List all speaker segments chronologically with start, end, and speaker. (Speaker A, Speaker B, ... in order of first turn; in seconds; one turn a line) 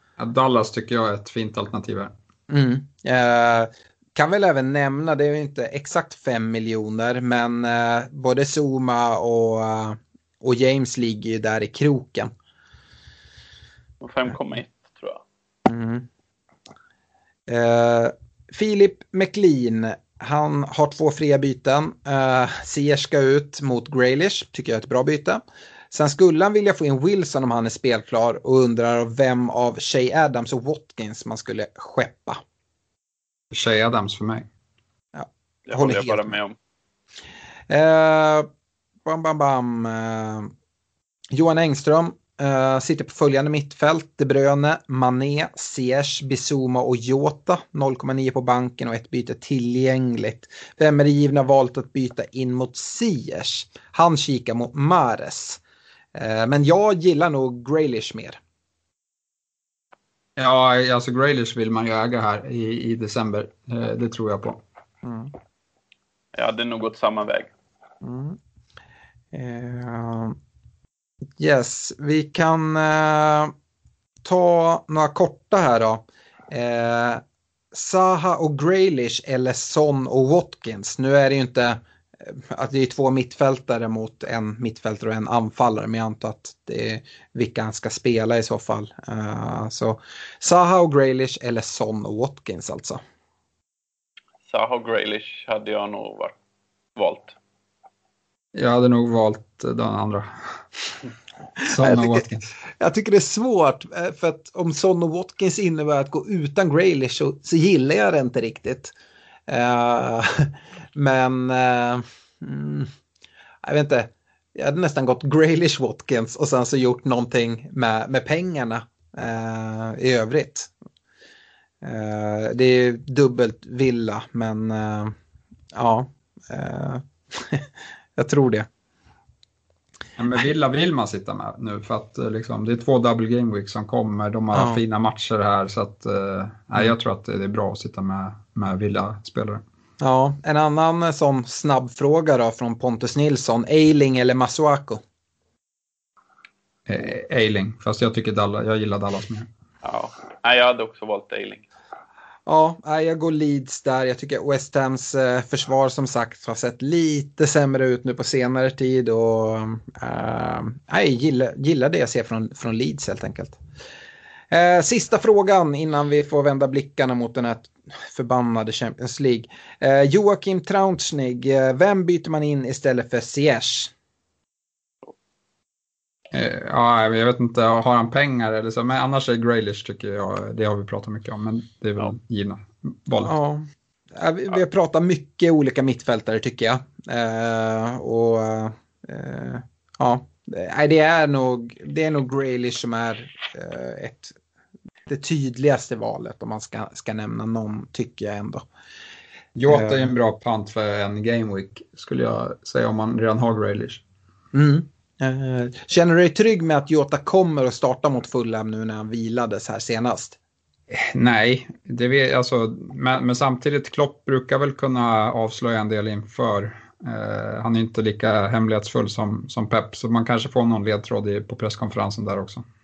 Speaker A: 0.2-2.1
Speaker B: 2.5-12.3
Speaker C: 14.0-15.2
Speaker B: 15.7-16.1
Speaker B: 17.5-32.4
Speaker A: 33.5-34.5
Speaker B: 35.1-36.4
Speaker C: 35.7-36.5
Speaker B: 37.7-38.5
Speaker B: 39.0-40.5
Speaker B: 41.3-55.6
Speaker B: 56.1-58.4
Speaker A: 60.4-64.6
Speaker B: 65.0-65.3
Speaker C: 66.3-67.5
Speaker B: 68.0-68.4
Speaker B: 69.3-70.4
Speaker B: 71.4-73.5
Speaker B: 74.2-93.0
Speaker C: 94.5-96.3
Speaker C: 97.0-97.3
Speaker A: 98.5-100.6
Speaker A: 101.6-102.5
Speaker B: 101.8-102.2
Speaker B: 102.8-108.9
Speaker B: 109.5-112.9
Speaker B: 113.6-120.7
Speaker B: 121.8-125.1
Speaker B: 125.7-128.7
Speaker A: 130.2-139.6
Speaker B: 134.5-134.8
Speaker B: 140.0-145.0
Speaker A: 146.9-149.5
Speaker C: 149.8-151.7
Speaker B: 152.4-163.6
Speaker B: 164.5-173.9
Speaker A: 176.3-183.3
Speaker B: 183.2-194.3
Speaker B: 195.1-198.6
Speaker A: 199.6-204.0
Speaker B: 199.7-200.1
Speaker B: 204.5-210.4
Speaker A: 210.9-222.6